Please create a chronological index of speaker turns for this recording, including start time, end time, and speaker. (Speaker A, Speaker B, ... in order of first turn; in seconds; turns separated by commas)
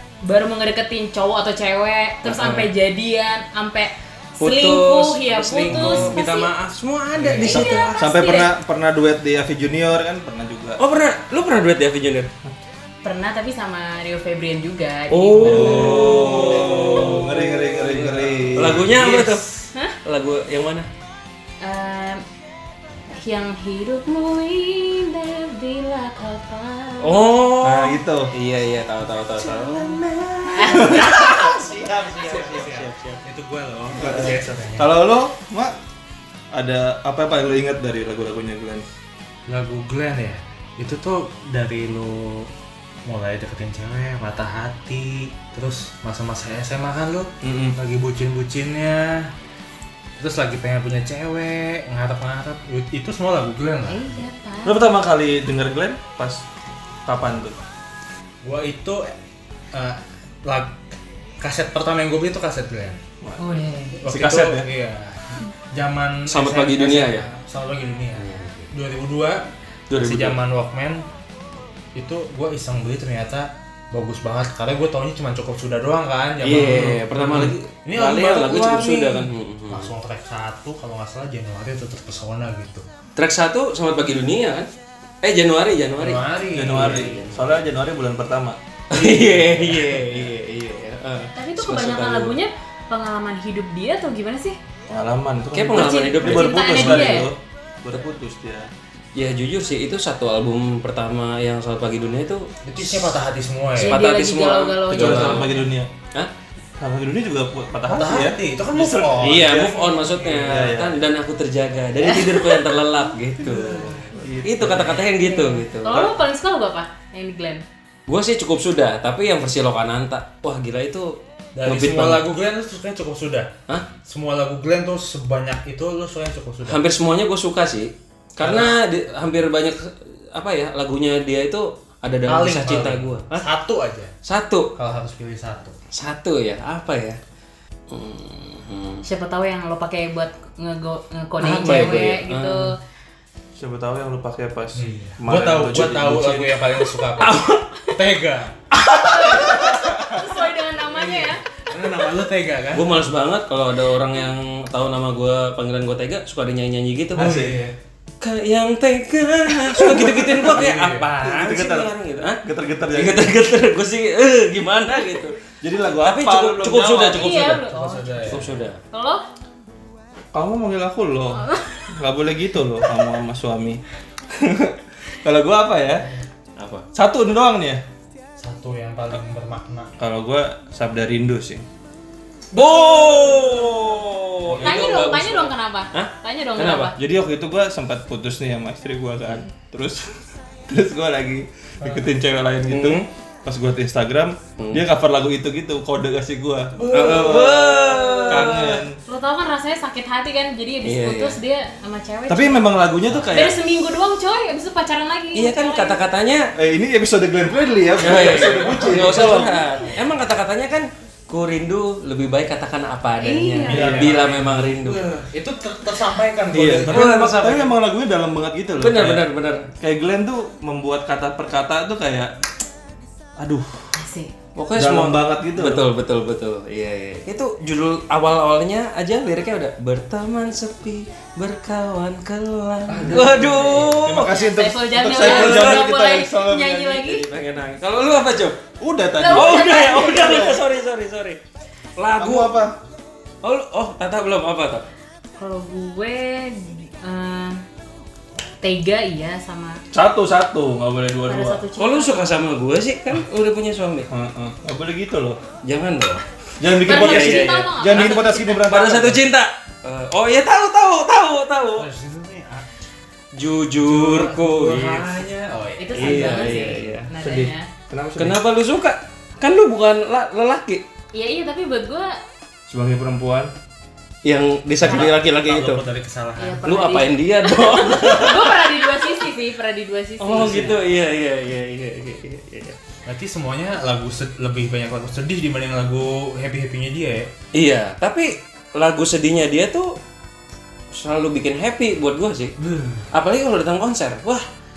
Speaker A: 0.2-6.5, Speaker B: 2.2-2.7, Speaker B: 4.4-8.0, Speaker C: 5.6-6.1, Speaker C: 7.1-7.5, Speaker A: 7.4-8.5, Speaker D: 7.5-10.8, Speaker B: 10.8-12.3, Speaker A: 13.0-16.0, Speaker B: 15.1-20.9, Speaker D: 15.4-19.4, Speaker C: 15.5-16.0, Speaker A: 21.6-22.2, Speaker A: 23.1-27.3, Speaker B: 27.0-33.2, Speaker D: 27.6-28.3, Speaker D: 30.5-31.6, Speaker A: 30.5-31.0, Speaker C: 30.9-35.0, Speaker D: 33.9-35.7, Speaker D: 36.5-38.8, Speaker C: 39.5-42.5, Speaker C: 43.0-49.3, Speaker D: 47.4-47.8, Speaker C: 50.2-54.2, Speaker A: 53.9-54.9, Speaker D: 54.6-56.4, Speaker D: 57.0-57.6, Speaker C: 58.4-59.1, Speaker C: 59.7-60.8, Speaker C: 61.4-63.0, Speaker A: 63.4-64.0, Speaker C: 64.0-71.0, Speaker D: 64.0-64.7, Speaker B: 66.3-67.3, Speaker B: 68.2-68.7, Speaker B: 69.9-70.4, Speaker C: 71.9-82.8, Speaker B: 76.4-79.9, Speaker B: 83.2-84.7, Speaker B: 85.2-87.5, Speaker C: 86.0-87.1, Speaker D: 86.5-89.5, Speaker B: 88.9-92.4, Speaker C: 89.4-90.0, Speaker A: 91.3-94.6, Speaker D: 94.9-98.7, Speaker B: 95.5-97.3, Speaker A: 95.7-97.3, Speaker B: 99.1-103.1, Speaker C: 102.6-104.0, Speaker A: 103.8-105.7, Speaker B: 103.8-105.5, Speaker D: 104.9-105.9, Speaker C: 104.9-105.5, Speaker D: 106.8-111.0, Speaker C: 107.8-109.7, Speaker B: 109.2-116.1, Speaker A: 112.2-112.6, Speaker C: 113.4-114.1, Speaker D: 114.2-115.0, Speaker A: 115.1-117.6, Speaker B: 118.1-122.2, Speaker C: 121.5-123.5, Speaker C: 124.0-126.8, Speaker B: 126.7-133.4, Speaker C: 128.4-128.8, Speaker C: 132.2-134.1, Speaker B: 134.2-134.7, Speaker C: 134.7-135.7, Speaker B: 135.9-137.2, Speaker B: 137.9-139.0, Speaker A: 139.0-142.8, Speaker B: 141.4-142.7, Speaker D: 143.6-146.6, Speaker C: 144.7-148.6, Speaker B: 147.2-147.9, Speaker B: 148.7-149.7, Speaker A: 148.9-151.4, Speaker D: 149.7-150.1, Speaker C: 150.9-152.9, Speaker B: 152.7-157.5, Speaker C: 157.1-157.7, Speaker B: 158.2-165.4, Speaker D: 159.7-160.5, Speaker C: 160.4-161.1, Speaker D: 161.2-163.3, Speaker D: 165.6-167.2, Speaker B: 165.9-167.6, Speaker A: 167.1-168.4, Speaker C: 167.5-168.6, Speaker B: 168.2-168.8, Speaker A: 168.9-169.2, Speaker D: 170.3-176.1, Speaker A: 171.3-171.9, Speaker B: 176.6-176.9, Speaker D: 176.9-177.8, Speaker C: 178.4-179.9, Speaker D: 180.0-181.7, Speaker B: 182.5-186.9, Speaker C: 184.4-185.0, Speaker A: 184.6-187.0, Speaker D: 186.9-190.1, Speaker D: 190.7-199.0, Speaker B: 192.7-193.1, Speaker B: 194.6-194.8, Speaker C: 196.7-198.5, Speaker B: 196.9-198.8, Speaker A: 199.1-206.0, Speaker B: 200.8-201.4, Speaker D: 202.3-203.6, Speaker B: 205.3-206.5, Speaker D: 206.6-209.7, Speaker B: 208.0-215.0, Speaker C: 208.1-209.5, Speaker A: 213.2-214.1, Speaker C: 213.6-217.3, Speaker D: 213.7-214.2, Speaker D: 216.5-219.2, Speaker B: 216.8-217.7, Speaker B: 218.8-219.7, Speaker D: 219.8-222.3, Speaker D: 223.4-223.9, Speaker A: 223.9-224.3, Speaker B: 224.6-234.3, Speaker D: 224.8-225.9, Speaker C: 232.9-233.9, Speaker D: 232.9-233.3, Speaker D: 233.9-237.2, Speaker A: 234.0-237.2, Speaker B: 235.2-235.9, Speaker B: 237.1-238.6, Speaker D: 238.8-240.6, Speaker A: 239.2-240.6, Speaker B: 239.2-241.4, Speaker B: 241.9-242.6, Speaker D: 242.2-242.8, Speaker B: 243.4-244.8, Speaker A: 245.4-247.6, Speaker A: 248.6-249.8, Speaker D: 249.9-251.6, Speaker A: 251.2-252.2, Speaker B: 251.8-254.1, Speaker D: 254.1-255.4, Speaker B: 255.6-261.9, Speaker D: 256.6-259.2, Speaker A: 256.7-258.6, Speaker C: 261.7-262.7, Speaker B: 263.3-265.2, Speaker C: 263.8-266.6, Speaker A: 265.8-267.7, Speaker B: 265.9-267.1, Speaker D: 267.2-268.4, Speaker B: 268.2-270.8, Speaker A: 271.1-272.2, Speaker D: 272.7-273.5, Speaker B: 274.2-275.8, Speaker C: 274.8-276.6, Speaker A: 276.4-280.7, Speaker B: 276.6-278.6, Speaker B: 280.2-282.8, Speaker D: 280.3-280.7, Speaker C: 283.1-287.3, Speaker B: 287.5-290.0, Speaker B: 290.9-292.6, Speaker C: 292.6-293.1, Speaker B: 293.1-294.4